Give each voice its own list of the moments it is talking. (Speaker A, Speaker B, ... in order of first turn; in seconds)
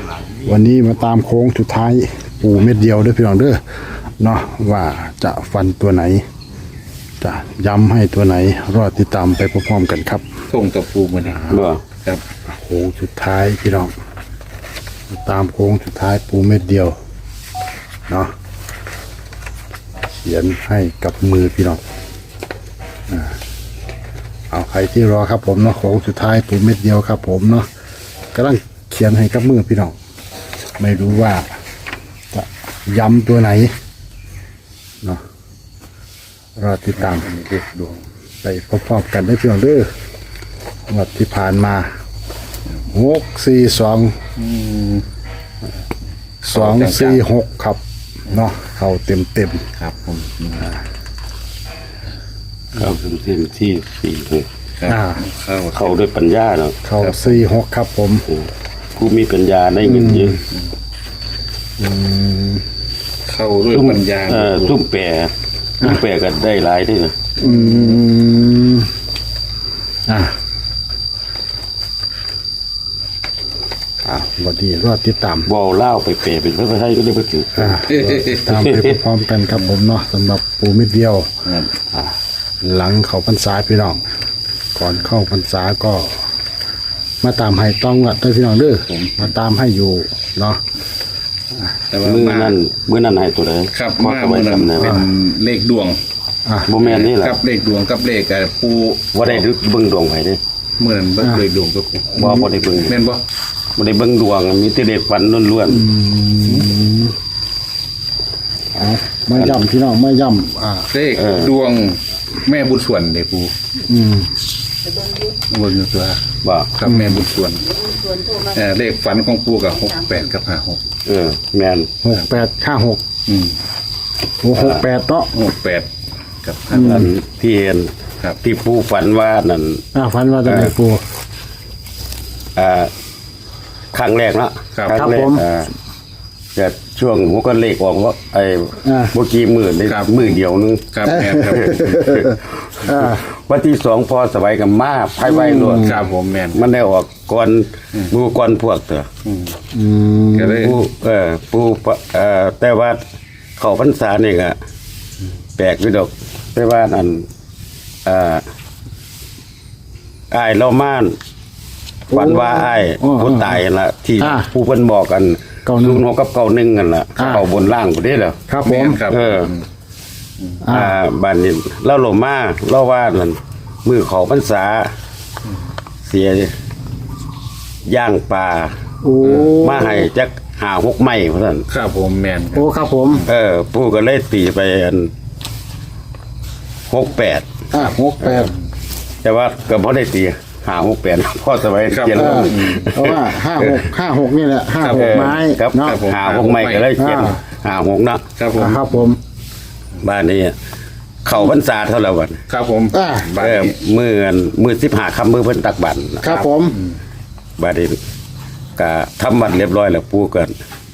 Speaker A: 0.4-3.6, 4.2-6.2, 7.2-10.2, 12.5-13.9, 15.1-16.9, 20.2-21.8, 23.1-23.4, 24.5-27.7, 28.3-29.9, 30.8-31.5, 32.3-33.7, 36.5-37.3, 38.4-39.9, 40.9-41.9, 42.9-44.1, 46.4-49.6, 54.9-55.2, 56.8-58.2, 59.9-60.4, 61.8-62.6, 67.4-68.9, 70.1-70.3, 74.0-75.5, 77.5-81.3, 81.9-84.0, 84.8-86.2, 87.2-90.6, 102.2-102.4, 105.7-107.1, 108.7-110.9, 113.9-114.3, 116.8-117.2, 122.0-123.0, 124.4-125.3, 126.7-127.1, 129.9-131.0, 134.9-135.4, 138.8-139.1, 141.0-143.2, 145.2-145.9, 149.7-150.7, 162.1-163.6, 164.2-164.5, 165.7-166.0, 167.2-167.4, 168.5-169.0, 170.6-171.0, 179.0-180.1, 182.5-183.2, 187.7-188.5, 192.1-196.0, 197.0-197.4, 198.6-199.2, 202.9-203.3, 206.2-206.8
Speaker B: 10.5-12.2, 37.0-38.0, 44.4-45.0, 46.5-47.2, 49.8-50.7, 54.8-55.8, 57.0-57.4, 63.2-64.8, 67.4-67.9, 77.9-78.5, 81.4-81.7, 88.9-89.3, 91.9-92.5, 93.7-96.0, 96.8-99.4, 100.8-102.2, 102.8-103.2, 110.9-113.5, 115.3-116.2, 116.7-120.8, 123.3-123.6, 125.3-125.9, 126.4-127.0, 139.9-140.3, 140.9-141.6, 145.8-146.6, 149.2-149.6, 150.3-150.8, 168.6-169.6, 179.2-179.6, 181.7-182.7, 191.9-192.8, 194.8-196.9, 198.3-199.0, 202.5-203.8
Speaker C: 11.4-11.8, 52.7-54.5, 55.7-56.8, 58.3-60.4, 63.7-67.1, 75.5-77.8, 78.5-79.0, 92.0-95.0, 96.6-97.4, 99.1-100.4, 102.1-103.0, 103.8-105.9, 109.3-109.6, 111.1-111.5, 116.4-116.7, 121.0-121.9, 124.5-124.8, 126.8-129.8, 130.4-130.7, 132.6-132.9, 133.9-135.7, 136.5-146.0, 146.5-149.1, 150.6-153.0, 153.6-154.6, 155.6-157.2, 158.0-158.4, 160.3-161.2, 162.1-168.4, 169.1-169.5, 170.7-174.9, 176.1-176.5, 177.8-178.7, 179.6-181.7, 183.2-185.1, 186.9-187.5, 189.2-193.8, 194.9-198.2, 200.0-200.5, 201.2-202.4, 203.4-206.4, 207.6-208.0, 208.8-210.5